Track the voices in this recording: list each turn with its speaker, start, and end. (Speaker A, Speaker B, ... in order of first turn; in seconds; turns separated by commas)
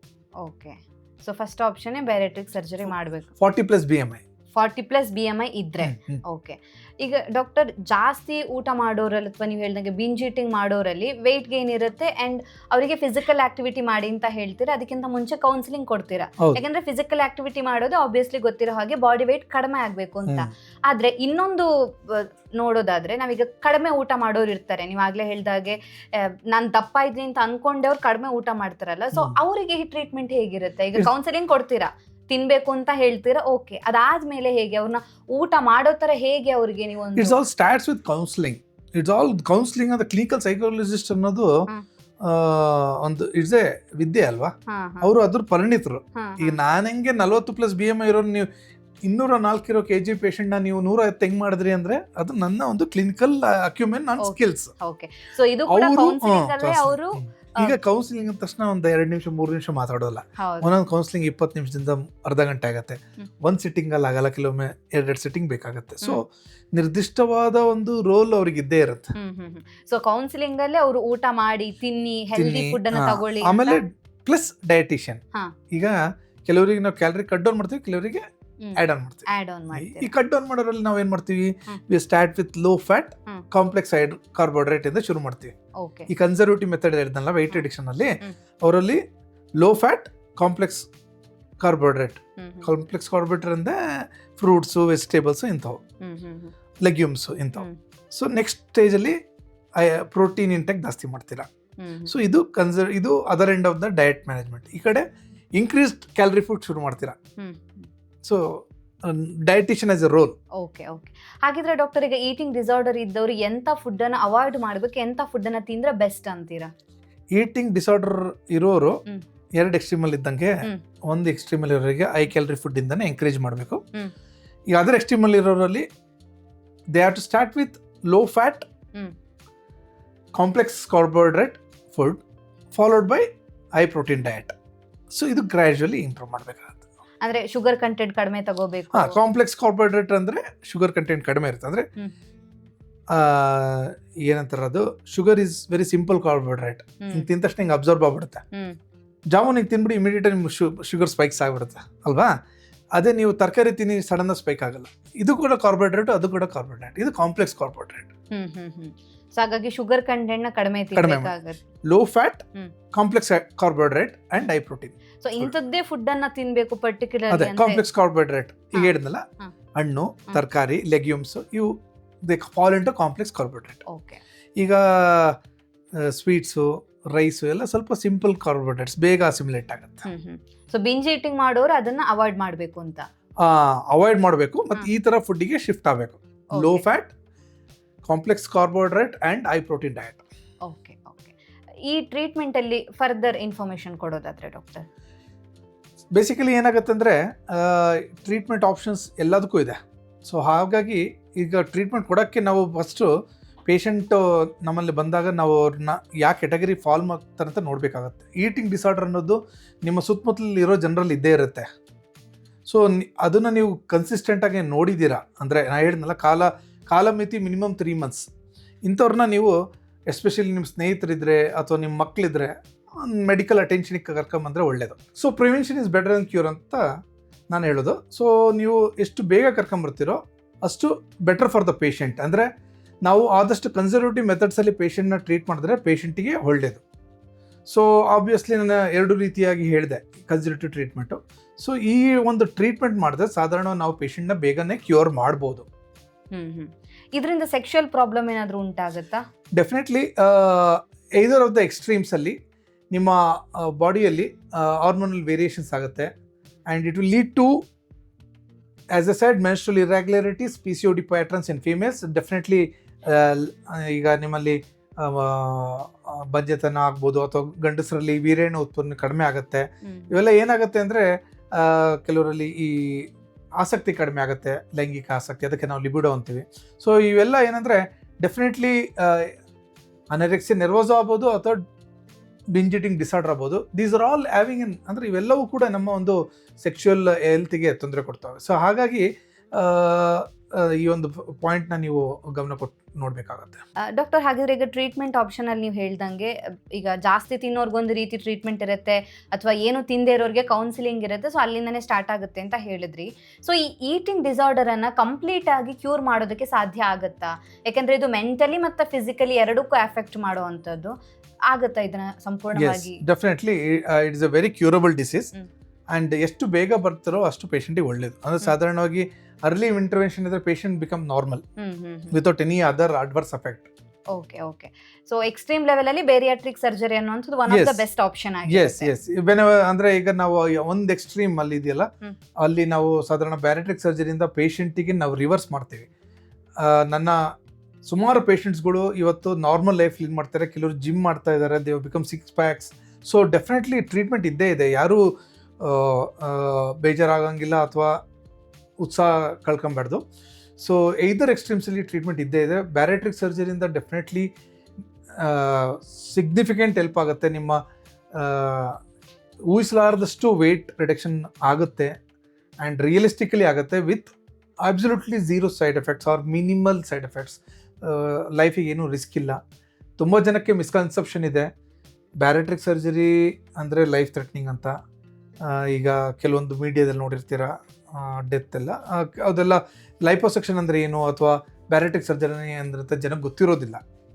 Speaker A: 0.4-3.3, Speaker B: 3.4-4.2, Speaker A: 4.5-37.4, Speaker B: 5.8-6.2, Speaker B: 20.2-20.5, Speaker B: 37.1-41.6, Speaker B: 42.2-48.5, Speaker A: 44.7-45.1, Speaker A: 46.1-46.6, Speaker B: 49.0-54.7, Speaker A: 54.2-57.8, Speaker B: 55.7-69.1, Speaker A: 60.4-60.7, Speaker A: 69.1-73.8, Speaker B: 72.3-85.5, Speaker A: 78.6-80.1, Speaker A: 85.8-86.1, Speaker B: 86.1-89.0, Speaker B: 89.6-90.9, Speaker B: 91.6-95.8, Speaker A: 92.4-92.7, Speaker A: 96.0-96.5, Speaker B: 96.8-99.2, Speaker B: 99.8-101.5, Speaker A: 101.8-102.1, Speaker B: 102.1-107.2, Speaker A: 107.4-107.9, Speaker B: 108.2-110.4, Speaker A: 110.5-116.7, Speaker B: 117.3-119.0, Speaker B: 119.6-123.8, Speaker B: 124.7-125.9, Speaker B: 126.9-128.7, Speaker B: 130.3-132.2, Speaker B: 132.7-134.5, Speaker B: 135.1-136.8, Speaker A: 137.2-139.2, Speaker B: 138.9-141.9, Speaker B: 143.1-148.4, Speaker A: 147.0-147.3, Speaker A: 148.5-148.8, Speaker B: 149.3-152.3, Speaker B: 152.9-158.1, Speaker A: 158.3-161.6, Speaker B: 160.9-165.5, Speaker A: 165.2-167.8, Speaker B: 167.3-173.8, Speaker A: 168.8-169.5, Speaker A: 173.9-174.2, Speaker B: 174.6-175.4, Speaker B: 175.9-180.1, Speaker A: 180.1-183.1, Speaker B: 183.4-187.1, Speaker A: 186.5-186.8, Speaker B: 188.0-190.2, Speaker A: 190.6-194.9, Speaker B: 196.1-203.1, Speaker B: 203.7-211.7, Speaker B: 212.7-218.3, Speaker B: 218.8-219.6, Speaker B: 220.1-226.8, Speaker B: 227.5-232.5, Speaker B: 233.1-236.8, Speaker B: 237.7-245.7, Speaker A: 246.3-249.2, Speaker B: 249.6-252.4, Speaker B: 252.9-256.1, Speaker B: 256.7-257.6, Speaker B: 258.9-273.1, Speaker A: 269.8-270.1, Speaker B: 273.6-279.3, Speaker B: 280.1-281.6, Speaker B: 282.5-293.6, Speaker A: 293.8-310.9, Speaker A: 311.5-313.0, Speaker B: 312.5-315.3, Speaker B: 315.9-321.4, Speaker A: 321.6-322.2, Speaker B: 322.1-323.7, Speaker A: 324.1-328.9, Speaker B: 327.5-327.8, Speaker B: 328.5-331.9, Speaker B: 332.4-335.9, Speaker B: 336.6-337.2, Speaker B: 337.8-348.0, Speaker B: 348.8-350.0, Speaker B: 350.6-354.3, Speaker B: 355.2-357.6, Speaker B: 358.1-358.8, Speaker B: 359.5-361.9, Speaker B: 362.6-369.4, Speaker B: 370.0-371.5, Speaker B: 372.2-374.7, Speaker B: 375.4-383.8